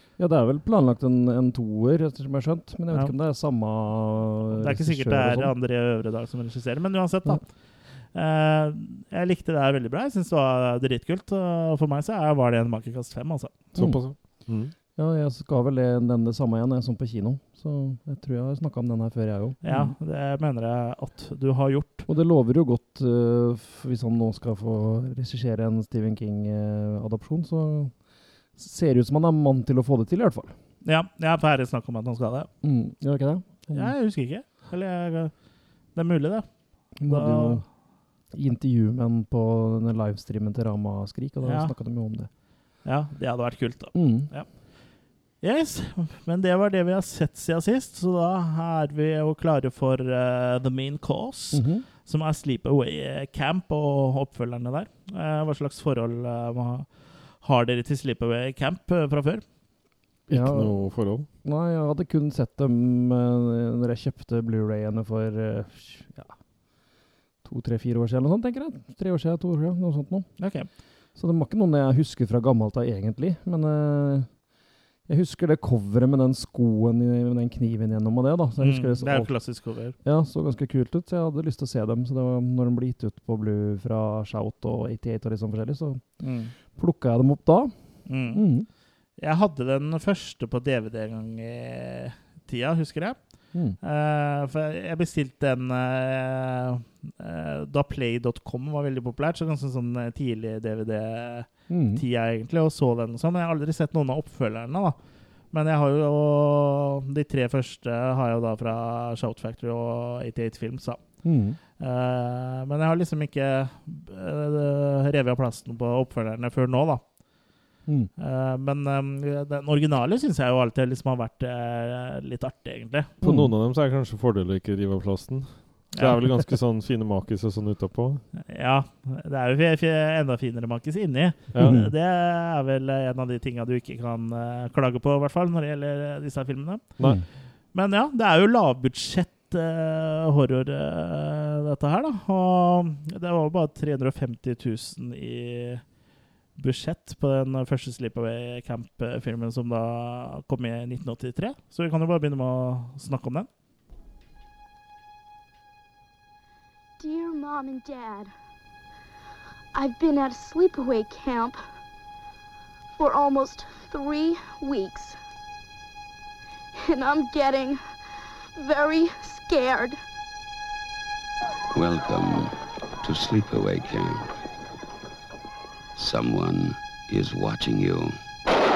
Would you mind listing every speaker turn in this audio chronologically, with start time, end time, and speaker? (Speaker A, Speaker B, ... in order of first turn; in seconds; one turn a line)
Speaker A: 0.2-5.5
Speaker B: 4.6-13.6
Speaker C: 13.8-14.7
Speaker A: 13.8-19.9
Speaker B: 19.6-22.1
Speaker A: 22.1-30.6
Speaker B: 30.8-32.5
Speaker A: 32.6-34.0
Speaker B: 33.7-35.3
Speaker B: 35.9-37.6
Speaker A: 37.0-37.7
Speaker A: 38.3-42.3
Speaker B: 41.4-41.7
Speaker B: 42.8-44.6
Speaker A: 43.9-44.3
Speaker B: 45.4-59.4
Speaker A: 51.5-51.9
Speaker C: 60.3-61.3
Speaker A: 60.3-66.4
Speaker A: 67.4-74.4
Speaker B: 70.4-70.7
Speaker A: 75.1-88.7
Speaker B: 78.6-80.0
Speaker B: 86.2-86.5
Speaker B: 88.1-88.4
Speaker B: 89.2-105.0
Speaker A: 101.7-102.0
Speaker B: 105.5-111.0
Speaker A: 111.2-111.6
Speaker B: 111.8-117.0
Speaker B: 118.2-123.1
Speaker C: 123.2-128.2
Speaker A: 123.2-123.5
Speaker B: 128.5-137.1
Speaker C: 131.5-131.8
Speaker A: 131.6-131.9
Speaker A: 137.0-137.3
Speaker B: 137.7-145.8
Speaker B: 146.6-153.5
Speaker D: 157.0-158.3
Speaker D: 159.7-161.6
Speaker D: 163.0-165.2
Speaker D: 166.8-167.8
Speaker D: 168.6-170.0
Speaker E: 171.8-172.5
Speaker E: 173.0-174.3
Speaker E: 176.0-178.2